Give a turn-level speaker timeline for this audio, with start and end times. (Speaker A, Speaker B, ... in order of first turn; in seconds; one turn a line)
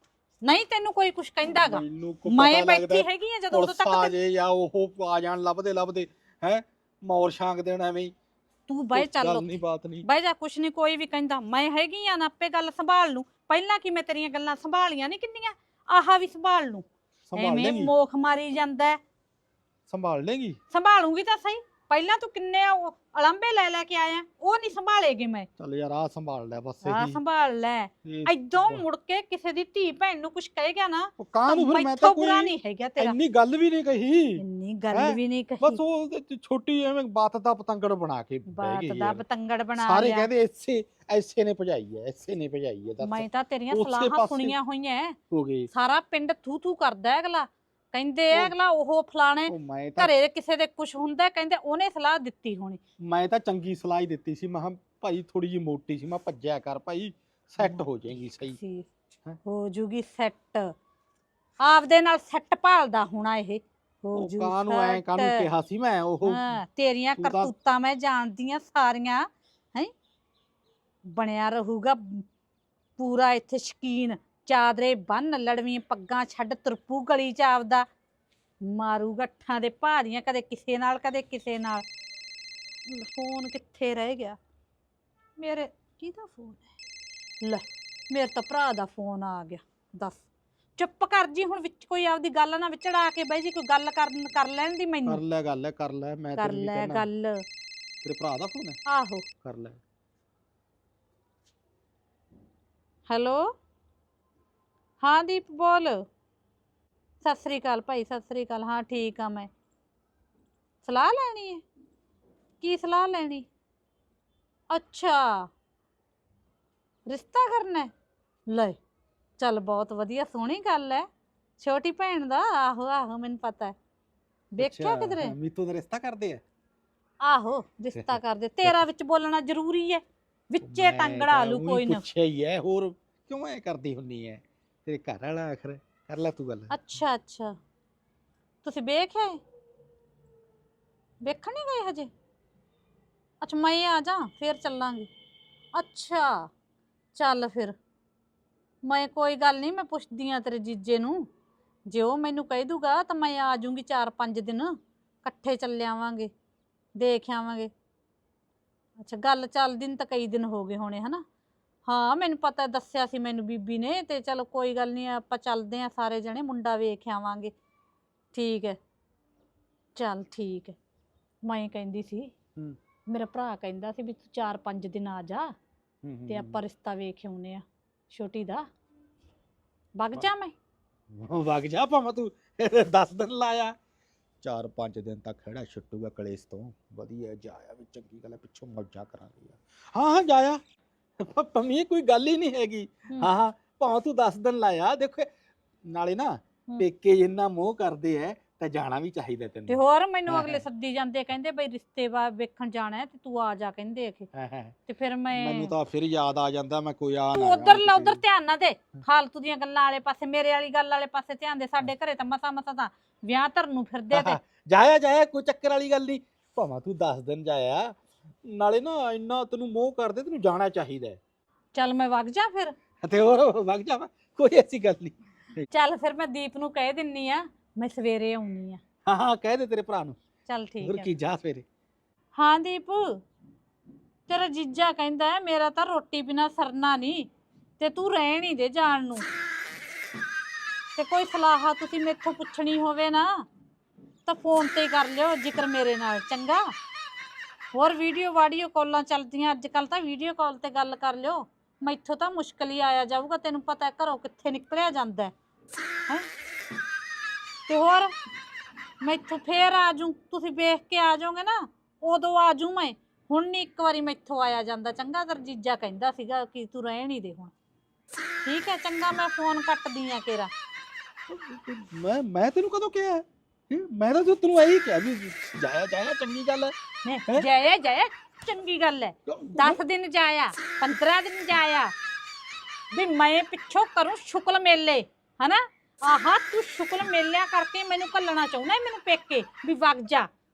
Speaker A: 0.4-4.1
Speaker B: 1.5-8.1
Speaker A: 8.7-9.5
Speaker B: 8.9-10.0
Speaker A: 10.0-19.0
Speaker B: 17.3-17.9
Speaker B: 19.9-20.6
Speaker A: 20.7-25.5
Speaker B: 25.6-27.2
Speaker A: 26.8-33.1
Speaker B: 28.0-28.8
Speaker B: 31.2-34.4
Speaker A: 34.4-35.8
Speaker B: 34.9-39.2
Speaker A: 38.5-40.3
Speaker B: 39.8-44.5
Speaker A: 43.0-45.2
Speaker B: 45.3-45.7
Speaker A: 45.7-52.8
Speaker B: 49.5-50.1
Speaker B: 53.0-58.6
Speaker A: 58.5-58.9
Speaker A: 59.4-60.7
Speaker A: 61.6-65.4
Speaker B: 64.1-66.4
Speaker A: 66.2-69.9
Speaker B: 67.2-67.5
Speaker A: 71.0-72.2
Speaker A: 73.0-77.8
Speaker A: 78.6-81.8
Speaker A: 82.9-84.4
Speaker A: 85.4-86.7
Speaker A: 87.4-90.2
Speaker A: 90.8-95.2
Speaker B: 95.0-97.1
Speaker A: 96.4-97.4
Speaker B: 98.0-98.8
Speaker A: 98.9-99.2
Speaker B: 99.4-99.8
Speaker A: 103.1-103.5
Speaker A: 105.0-106.0
Speaker A: 107.2-109.5
Speaker A: 110.8-111.6
Speaker A: 112.6-113.5
Speaker A: 114.7-115.5
Speaker A: 117.1-117.9
Speaker A: 118.5-118.8
Speaker A: 119.4-121.0
Speaker A: 121.6-123.7
Speaker A: 124.5-125.3
Speaker B: 124.6-126.4
Speaker A: 127.2-132.0
Speaker B: 127.9-128.8
Speaker B: 130.6-136.7
Speaker A: 136.7-137.5
Speaker A: 138.6-139.4
Speaker A: 141.2-142.1
Speaker A: 143.4-145.1
Speaker A: 145.7-146.4
Speaker A: 147.1-147.7
Speaker A: 148.8-151.2
Speaker A: 151.9-154.7
Speaker A: 155.2-156.3
Speaker A: 157.0-157.7
Speaker A: 159.0-161.2
Speaker A: 161.8-167.5
Speaker A: 168.3-168.8
Speaker A: 169.9-170.8
Speaker A: 171.4-172.3
Speaker A: 173.1-175.5
Speaker B: 176.0-176.6
Speaker A: 176.3-178.7
Speaker A: 180.0-180.5
Speaker B: 181.1-183.7
Speaker B: 184.4-190.6
Speaker B: 191.2-195.3
Speaker B: 195.9-200.6
Speaker A: 199.7-204.3
Speaker B: 204.3-204.8
Speaker A: 204.9-205.7
Speaker B: 205.3-208.2
Speaker A: 207.3-214.4
Speaker B: 214.1-217.9
Speaker B: 218.4-221.2
Speaker A: 221.7-222.7
Speaker B: 223.0-225.7
Speaker A: 225.7-228.8
Speaker B: 229.1-230.2
Speaker A: 230.5-231.1
Speaker B: 230.8-231.6
Speaker A: 232.3-233.2
Speaker A: 234.3-237.3
Speaker A: 237.8-239.2
Speaker A: 240.9-243.4
Speaker A: 244.2-246.7
Speaker A: 247.7-255.3
Speaker A: 257.7-258.1
Speaker A: 259.0-267.5
Speaker A: 268.4-270.5
Speaker B: 271.3-276.7
Speaker A: 277.1-281.9
Speaker B: 279.3-279.8
Speaker A: 282.9-290.3